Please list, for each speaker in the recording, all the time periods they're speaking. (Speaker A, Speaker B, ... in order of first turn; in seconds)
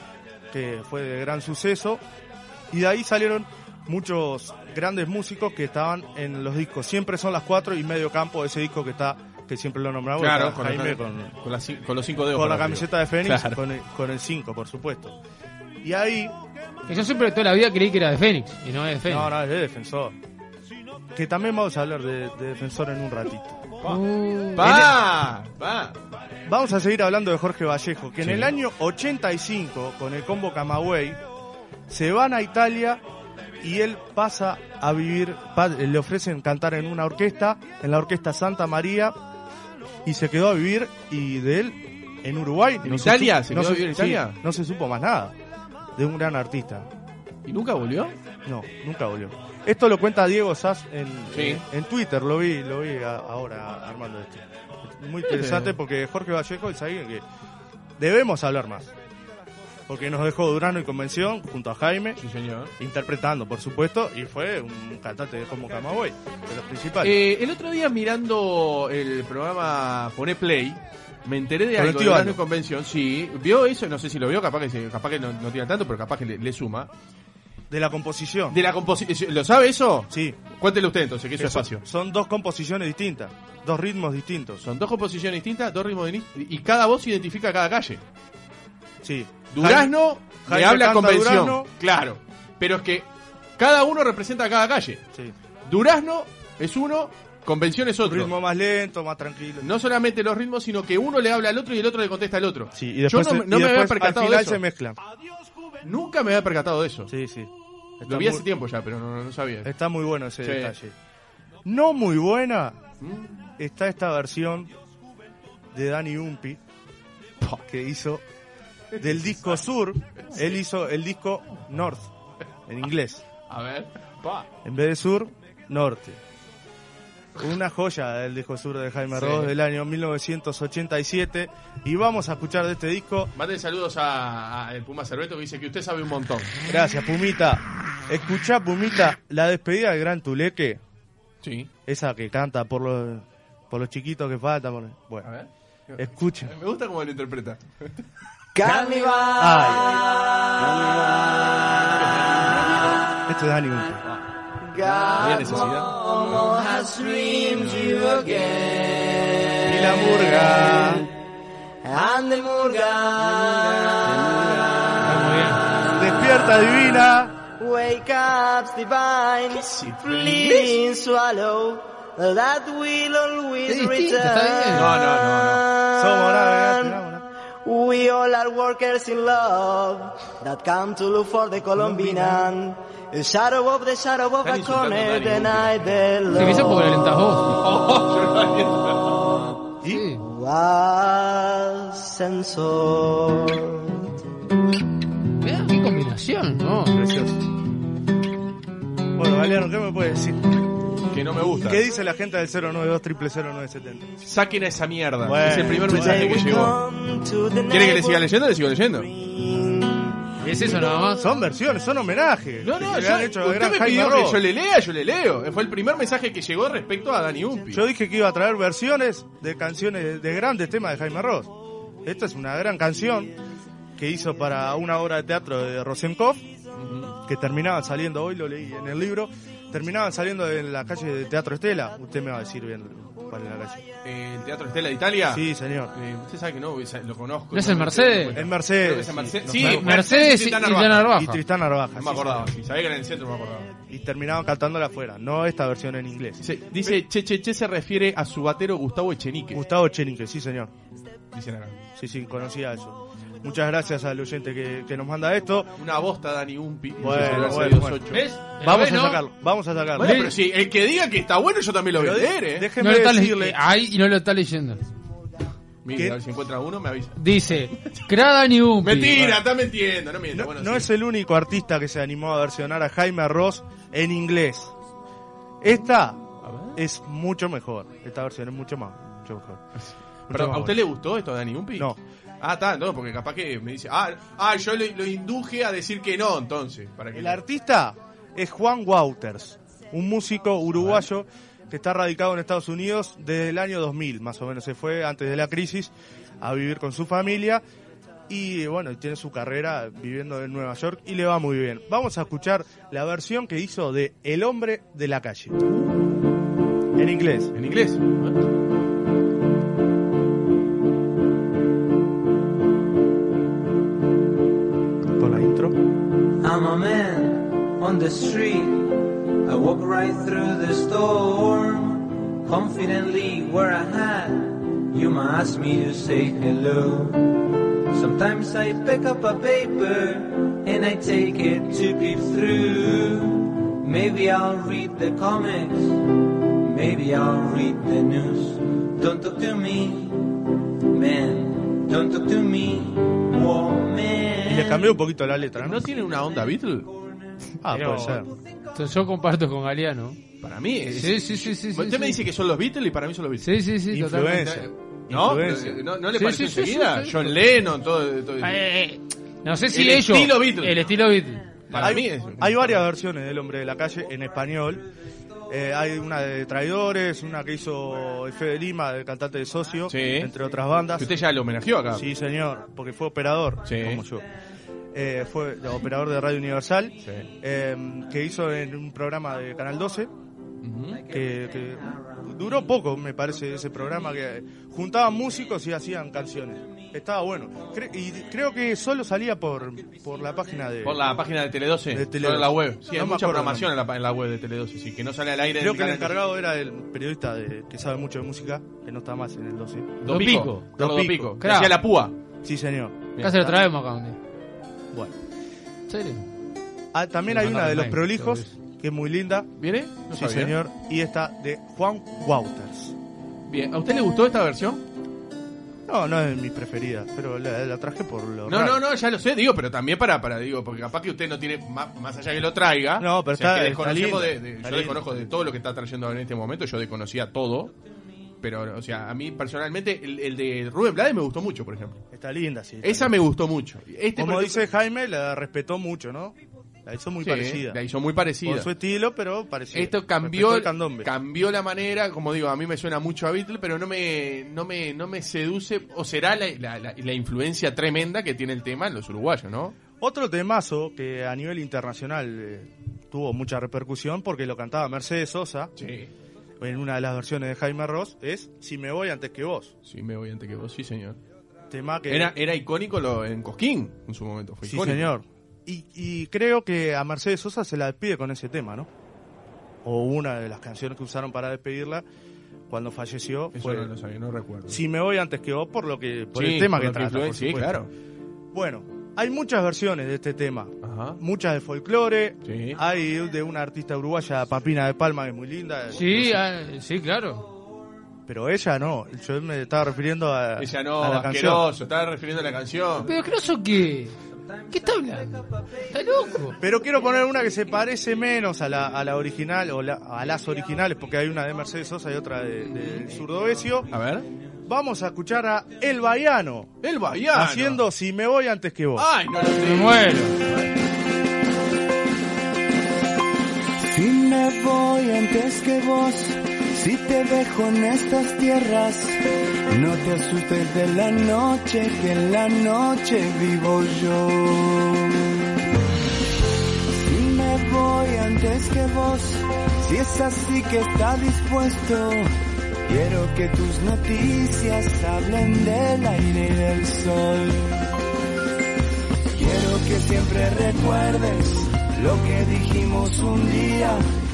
Speaker A: 0.5-2.0, 2.7-11.3, 12.3-15.2, 15.8-16.3, 19.1-20.1, 21.1-23.7, 24.6-24.9, 26.5-31.2, 31.9-33.0, 33.6-39.1, 40.0-45.3, 46.0-46.9, 48.5-57.2, 58.0-58.9, 59.9-62.2, 62.8-67.2, 71.8-72.4, 77.7-78.6, 80.1-80.4, 81.4-84.6, 89.0-91.7, 98.0-99.7, 102.8-105.0, 107.1-107.5, 108.0-108.4, 109.6-110.9, 111.6-112.8, 113.6-114.7, 115.7-116.6, 117.6-118.2, 119.0-122.1, 122.7-123.2, 124.6-126.2, 127.4-133.3, 136.7-140.8, 141.9-145.3, 146.0-146.5, 149.4-150.0, 153.3-154.0, 159.7-161.0, 166.0-167.3, 176.0-177.2, 181.8-182.4, 196.9-197.4, 199.2-200.5, 201.6-204.1, 205.2-206.5, 210.8-214.4, 217.7-221.5, 222.0-223.3, 224.0-226.4, 227.2-233.8, 235.3-235.9, 238.3-240.0, 241.1-242.5, 243.9-247.0, 249.5-250.7, 252.0-255.7, 257.0-260.2, 261.9-263.6, 270.3-274.7, 275.6-276.2, 276.8-279.6, 280.3-280.8, 287.1-297.6, 298.3-305.6, 307.0-307.5, 315.2-315.8, 344.4-345.8, 347.6-348.3, 353.9-355.8, 361.8-364.9, 365.5-371.1, 371.9-374.2, 374.9-380.1, 381.1-391.0, 391.9-393.7, 395.6-400.0, 400.8-401.3, 402.4-403.5, 406.9-409.5, 410.1-412.9, 415.9-418.8, 423.0-425.3, 432.1-433.1, 434.2-437.8, 438.4-441.1, 450.0-455.7, 456.6-459.7, 461.7-462.3, 464.7-468.9, 469.8-472.0, 472.7-473.9, 474.7-477.8, 478.5-486.4, 488.3-491.6, 496.6-503.9, 504.7-506.7, 507.3-509.1
Speaker B: 10.2-13.6, 24.6-25.9, 28.2-28.5, 42.8-44.4, 47.5-48.1, 51.3-51.6, 55.2-55.8, 62.2-62.7, 67.0-76.9, 78.5-81.8, 84.6-88.0, 89.5-95.0, 95.7-98.3, 99.6-104.6, 105.8-107.1, 108.0-109.7, 110.4-110.7, 113.0-113.4, 118.9-119.6, 120.2-120.6, 123.5-124.5, 129.1-129.5, 133.3-136.5, 141.4-141.7, 145.2-147.9, 151.9-153.0, 155.2-156.0, 169.5-170.8, 174.7-175.6, 184.4-186.0, 187.5-189.3, 201.1-201.8, 204.2-206.8, 207.7-209.1, 212.6-217.8, 226.8-227.2, 234.0-241.2, 241.9-243.7, 246.4-249.6, 251.3-251.8, 255.8-258.3, 260.0-262.7, 265.8-267.9, 268.8-270.9, 276.4-276.8, 279.8-287.4, 290.8-291.1, 307.5-308.4, 345.6-346.9, 350.4-353.5, 354.3-358.6, 359.7-360.8, 361.7-362.8, 369.9-370.3, 371.0-372.1, 373.6-374.0, 380.6-381.0, 390.8-396.2, 400.0-402.1, 403.2-403.5, 409.6-410.6, 413.5-414.8, 418.5-427.7, 428.4-432.0, 432.8-434.6, 437.2-438.7, 439.7-449.8, 455.8-456.1, 459.8-461.2, 462.1-465.1, 473.5-474.8, 476.3-477.9, 480.8-481.2, 482.4-482.8, 490.6-493.1, 502.6-503.0, 503.9-504.3, 506.8-507.8, 509.0-510.7
Speaker C: 16.9-19.3, 23.8-24.7, 165.1-165.6, 173.7-175.0, 186.3-187.6, 189.9-190.2, 195.4-197.0, 210.4-211.3, 237.5-238.4, 239.6-241.4, 258.1-259.2, 260.0-260.3, 262.8-264.8, 267.1-269.2, 347.6-348.2, 348.7-350.2, 350.9-352.2, 353.4-354.4, 356.1-357.3, 358.4-361.5, 400.1-400.8, 401.4-401.8, 403.2-404.2, 405.9-406.2, 407.3-408.6, 485.9-487.5, 493.0-494.1, 494.7-496.6, 509.6-510.4
Speaker D: 148.5-152.1, 154.6-161.1, 161.8-165.1, 167.6-177.0, 177.6-186.8, 190.2-193.9, 205.8-210.2
Speaker E: 316.4-344.9, 381.8-382.2, 494.4-496.5
Speaker F: 513.8-519.2, 519.7-525.2, 526.9-532.3, 532.9-537.7, 539.3-544.0